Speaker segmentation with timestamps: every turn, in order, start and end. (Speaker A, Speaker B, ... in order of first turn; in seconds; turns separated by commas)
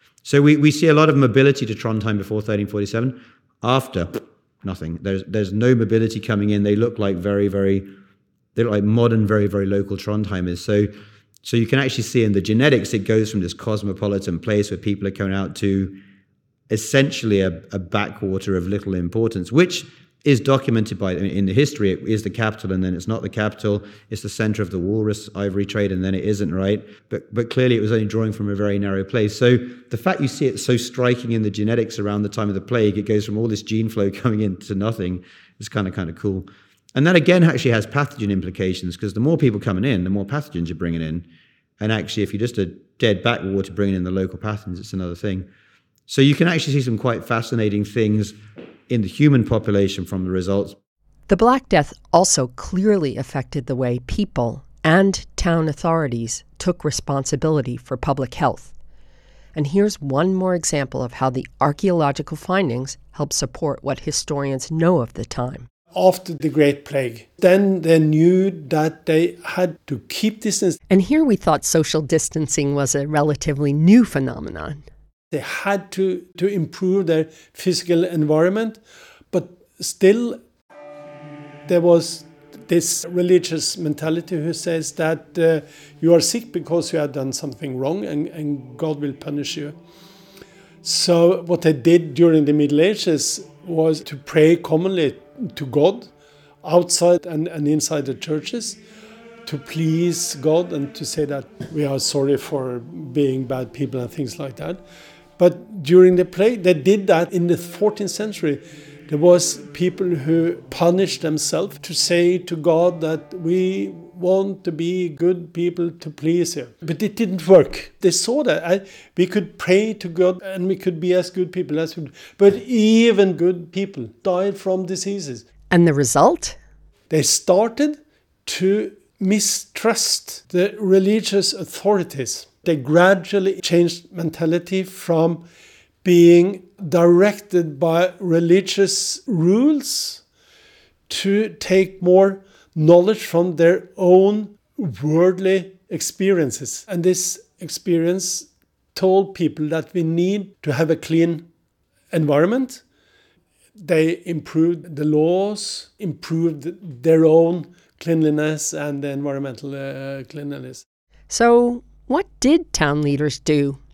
Speaker A: 0.2-7.9, Speaker A: 8.6-10.9, Speaker A: 11.4-16.0, Speaker A: 16.7-41.3, Speaker A: 41.8-45.5, Speaker A: 46.1-48.4, Speaker A: 48.9-50.8, Speaker B: 51.3-58.7, Speaker B: 59.5-65.7, Speaker C: 65.9-70.8, Speaker B: 70.9-74.8, Speaker C: 75.3-78.8, Speaker C: 79.3-80.4, Speaker C: 81.7-89.8, Speaker C: 90.8-96.1, Speaker C: 96.6-98.8, Speaker C: 99.5-104.8, Speaker C: 105.4-125.5, Speaker B: 125.7-126.6, Speaker C: 127.1-135.4, Speaker C: 136.0-140.2, Speaker C: 141.1-151.5, Speaker C: 152.1-152.8, Speaker C: 153.8-160.8, Speaker B: 161.3-163.8